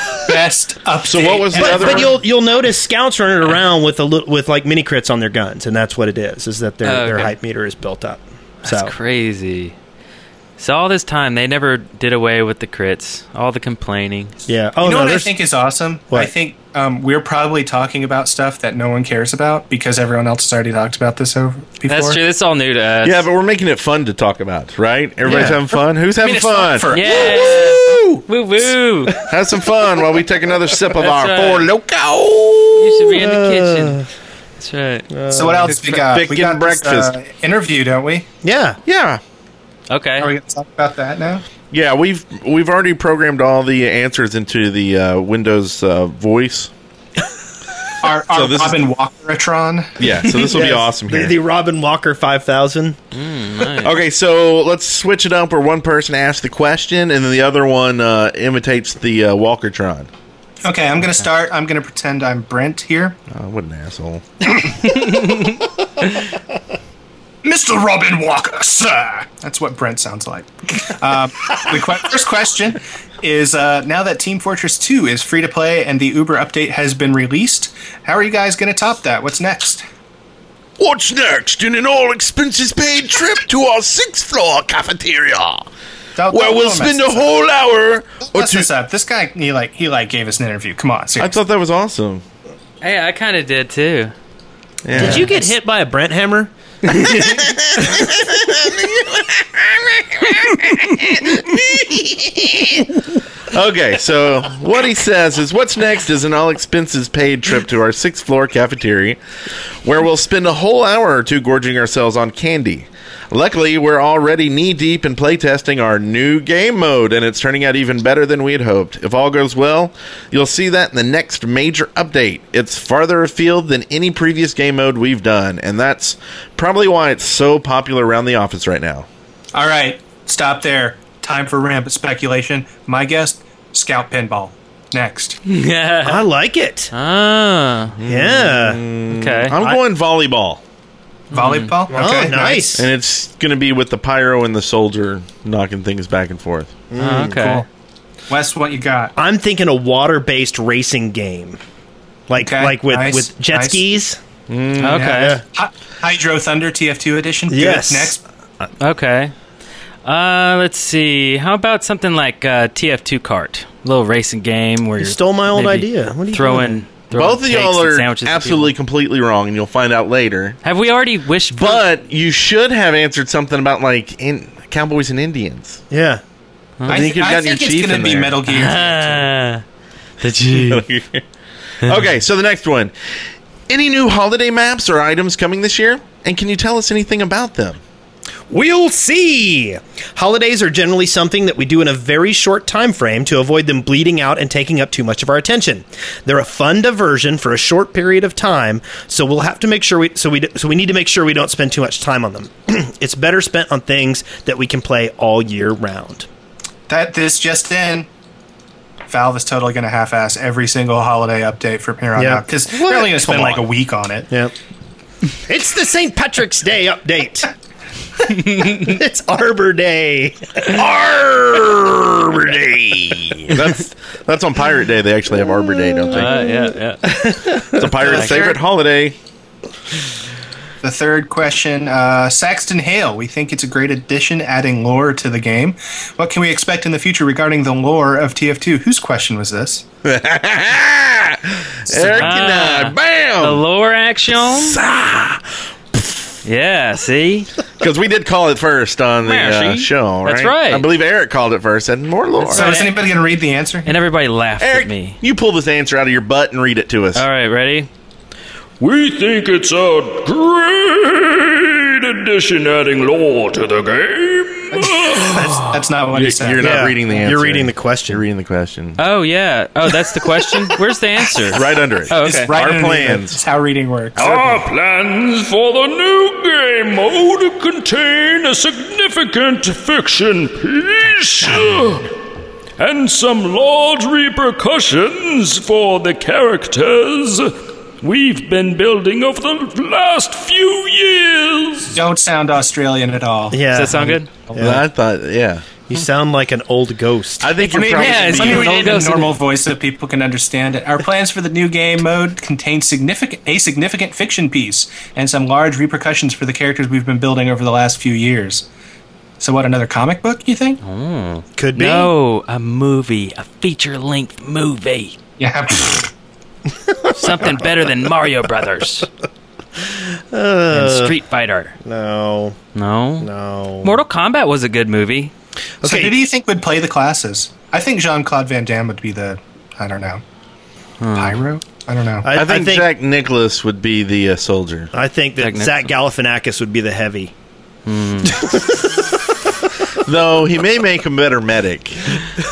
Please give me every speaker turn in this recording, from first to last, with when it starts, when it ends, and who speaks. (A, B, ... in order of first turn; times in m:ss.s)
0:00.2-0:02.1 A
0:01.0-0:02.2 B
0:01.5-0:08.9 C
0:06.8-0:07.3 D
0:08.6-0:09.7 D
0:10.6-0:14.3 D
0:14.5-0:15.3 C
0:14.8-0:22.2 A
0:21.9-0:23.2 D
0:23.0-0:28.2 B
0:25.2-0:27.6 A
0:26.9-0:29.2 D
0:29.2-0:33.1 B
0:30.9-0:31.7 D
0:32.8-0:34.0 D
0:33.1-0:34.1 C
0:34.6-0:35.1 D
0:35.1-0:35.9 C
0:35.3-0:38.3 A
0:35.9-0:37.1 B
0:38.4-0:38.8 C
0:38.8-0:39.2 B
0:39.9-0:40.3 D
0:40.2-0:41.4 A
0:41.7-0:46.7 B
0:48.0-0:49.9 A
0:48.3-0:48.8 B
0:50.0-0:51.4 B
0:50.5-0:53.0 C
0:53.1-0:53.9 D
0:53.8-1:00.1 B
1:00.6-1:03.2 A
1:03.3-1:04.5 B
1:07.4-1:19.8 A
1:20.8-1:25.7 B
1:26.1-1:27.3 A
1:26.3-1:28.7 B
1:28.2-1:31.3 A
1:31.2-1:32.2 B
1:32.8-1:34.1 D
1:34.8-1:35.4 B
1:35.0-1:36.5 C
1:37.0-1:37.3 D
1:37.2-1:43.0 B
1:43.5-1:49.2 B
1:49.8-2:09.1 B
2:09.5-2:15.4 A
2:15.4-2:16.2 D
2:16.0-2:16.9 C
2:16.9-2:18.0 D
2:17.9-2:20.6 B
2:18.0-2:18.8 C
2:19.1-2:19.5 D
2:21.3-2:21.8 D
2:21.3-2:22.8 A
2:21.9-2:22.8 C
2:22.7-2:26.7 B
2:26.9-2:27.6 C
2:27.0-2:27.6 D
2:28.3-2:29.1 A
2:29.2-2:31.6 C
2:32.3-2:34.2 C
2:32.4-2:33.8 A
2:34.5-2:35.1 B
2:34.8-2:35.4 D
2:34.8-2:38.2 A
2:35.1-2:35.4 C
2:37.5-2:38.1 C
2:38.8-2:39.3 D
2:40.0-2:48.7 D
2:45.0-2:46.8 C
2:47.1-2:50.6 B
2:50.6-2:51.8 D
2:51.5-2:55.8 B
2:55.9-2:56.2 C
2:56.8-2:57.1 D
2:56.9-2:58.4 B
2:56.9-2:59.2 A
2:58.5-2:59.6 D
3:00.2-3:00.8 D
3:00.5-3:01.2 B
3:01.8-3:07.8 B
3:08.5-3:26.3 C
3:26.9-3:28.1 A
3:29.1-3:34.3 A
3:32.2-3:33.6 C
3:35.4-3:37.5 C
3:38.3-3:43.5 C
3:40.7-3:42.0 B
3:42.9-3:46.4 B
3:46.1-3:47.9 C
3:46.1-3:47.0 D
3:47.8-3:49.2 B
3:48.0-3:48.4 D
3:48.0-3:48.6 A
3:50.8-3:59.8 A
4:00.0-4:03.6 B
4:02.0-4:02.3 A
4:02.1-4:04.8 D
4:04.3-4:06.2 B
4:06.4-4:07.5 D
4:07.8-4:12.7 B
4:09.2-4:10.9 D
4:12.4-4:13.0 D
4:12.5-4:13.9 A
4:13.8-4:15.2 D
4:14.6-4:17.2 B
4:17.1-4:17.9 D
4:18.8-4:25.4 E
4:24.8-4:26.6 A
4:26.1-4:29.0 B
4:26.6-4:28.2 C
4:29.0-4:32.6 D
4:31.5-4:33.4 B
4:32.1-4:34.6 A
4:34.1-4:42.1 E
4:42.8-4:51.9 E
4:51.9-4:54.6 A
4:53.5-4:54.8 C
4:53.7-4:54.3 D
4:54.6-4:55.6 B
4:55.9-4:57.5 C
4:57.4-4:59.0 B
4:57.7-5:08.6 A
4:57.9-4:59.4 D
5:09.4-5:10.8 A
5:10.8-5:15.2 D
5:11.6-5:12.1 C
5:15.4-5:16.1 A
5:17.1-5:19.1 D
5:19.9-5:21.1 C
5:20.7-5:21.7 D
5:21.8-5:22.6 C
5:22.7-5:23.3 D
5:23.2-5:24.0 C
5:23.8-5:25.3 D
5:25.8-5:26.1 C
5:25.8-5:30.2 A
5:31.0-5:31.4 D
5:31.1-5:32.3 A
5:32.2-5:32.9 C
5:32.3-5:34.9 B
5:34.9-5:37.3 C
5:35.4-5:35.9 D
5:37.8-5:38.6 D
5:40.0-5:42.3 B